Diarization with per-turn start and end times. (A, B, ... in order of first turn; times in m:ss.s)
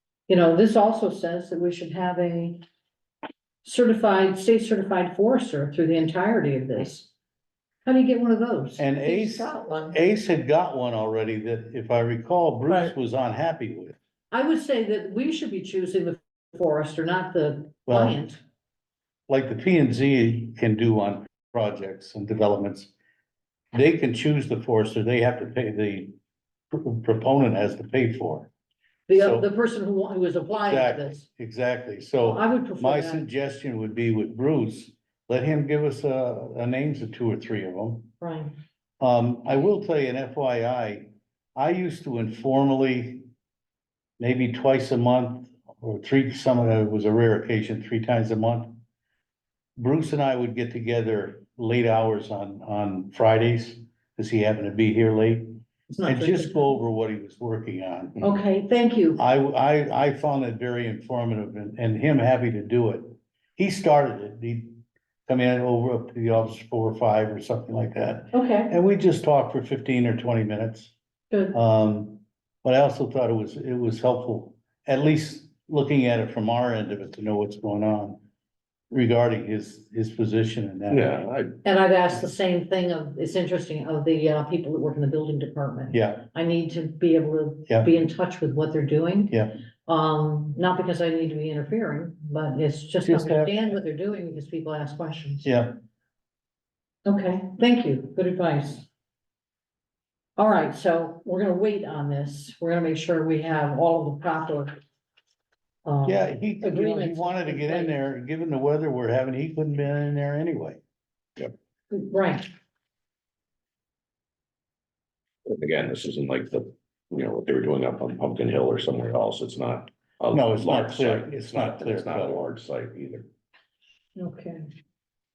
0:00.3-0:02.6 A
0:03.6-0:07.1 A
0:07.8-0:08.8 A
0:08.8-0:14.0 B
0:09.0-0:10.0 C
0:12.7-0:12.9 C
0:14.3-0:18.4 A
0:17.9-0:18.2 B
0:19.3-0:22.9 B
0:23.7-0:26.2 B
0:26.7-0:28.5 B
0:29.1-0:31.2 A
0:29.1-0:29.5 B
0:30.6-0:38.1 B
0:32.2-0:33.3 A
0:38.2-0:38.6 A
0:39.0-0:43.3 B
0:44.2-0:48.8 B
0:49.8-0:58.2 B
0:55.9-0:56.8 A
0:58.2-0:59.2 A
0:59.2-1:10.9 B
1:08.3-1:08.7 A
1:11.3-1:11.6 A
1:11.5-1:18.2 B
1:18.9-1:21.1 B
1:21.1-1:21.5 C
1:21.6-1:35.5 A
1:25.9-1:26.3 B
1:29.3-1:29.6 B
1:33.0-1:33.6 B
1:35.4-1:35.7 B
1:37.1-1:38.9 A
1:40.4-1:44.7 A
1:45.8-1:48.0 A
1:46.0-1:50.8 B
1:51.9-1:52.5 A
1:55.5-2:03.3 C
2:00.3-2:02.4 B
2:04.2-2:04.7 A